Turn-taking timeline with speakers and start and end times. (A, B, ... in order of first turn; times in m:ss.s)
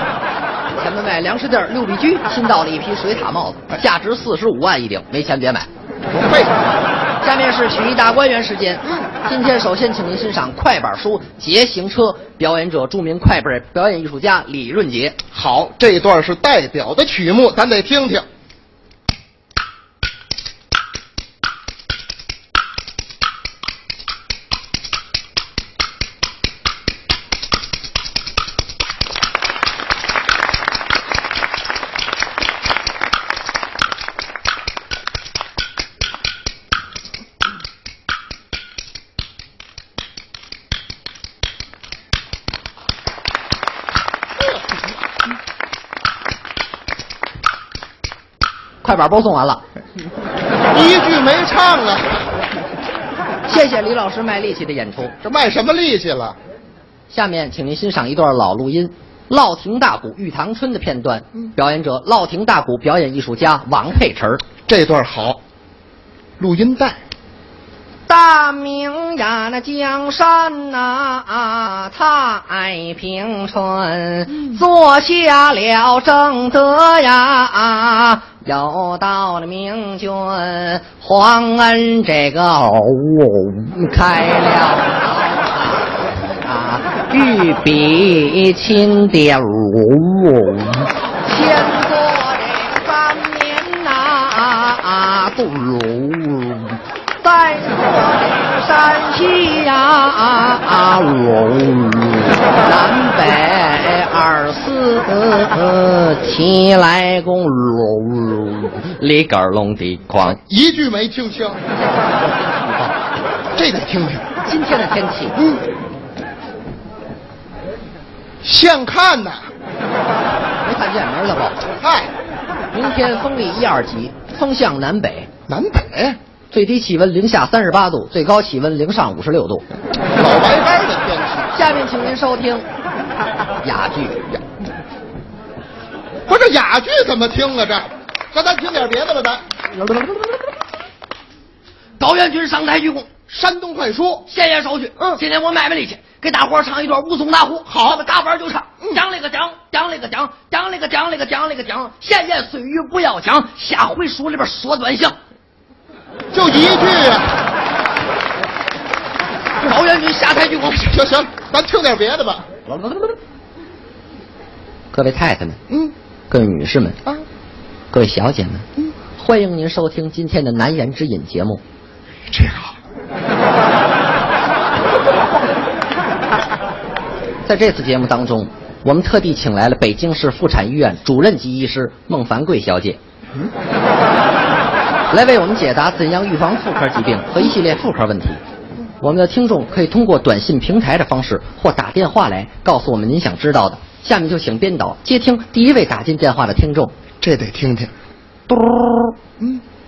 0:00.8-0:05.7 A
0:06.1-0:06.8 B
0:07.2-0:15.2 A
0:15.3-0:18.2 B
0:48.8-0:49.6 A
0:50.7-0:52.3 B
0:53.4-0:55.1 A
0:55.2-0:56.4 B
0:57.1-1:04.4 A
1:04.7-1:05.4 B
1:06.4-1:07.0 B
1:08.1-1:50.4 A
1:50.3-1:51.6 B
1:51.7-1:53.0 A
1:53.5-1:54.2 B
1:54.4-1:55.4 A
1:58.4-1:59.5 B
2:00.6-2:01.6 A
2:01.8-2:02.1 B
2:02.7-2:05.3 A
2:05.5-2:06.2 B
2:06.5-2:09.6 A
2:10.1-2:11.5 B
2:11.5-2:12.6 A
2:13.6-2:14.2 A
2:16.3-2:19.4 B
2:22.0-2:23.1 A
2:23.3-2:24.3 B
2:24.3-2:35.2 A
2:27.7-2:28.0 B
2:36.3-2:37.3 B
2:39.6-2:41.0 A
2:40.8-2:42.5 B
2:44.9-2:45.6 A
2:46.3-2:47.0 A
2:47.9-2:51.6 A
2:52.3-2:52.7 B
2:57.4-3:03.0 A
3:05.1-3:08.4 A
3:09.0-3:16.9 A
3:17.2-3:17.9 B
3:18.5-3:19.1 A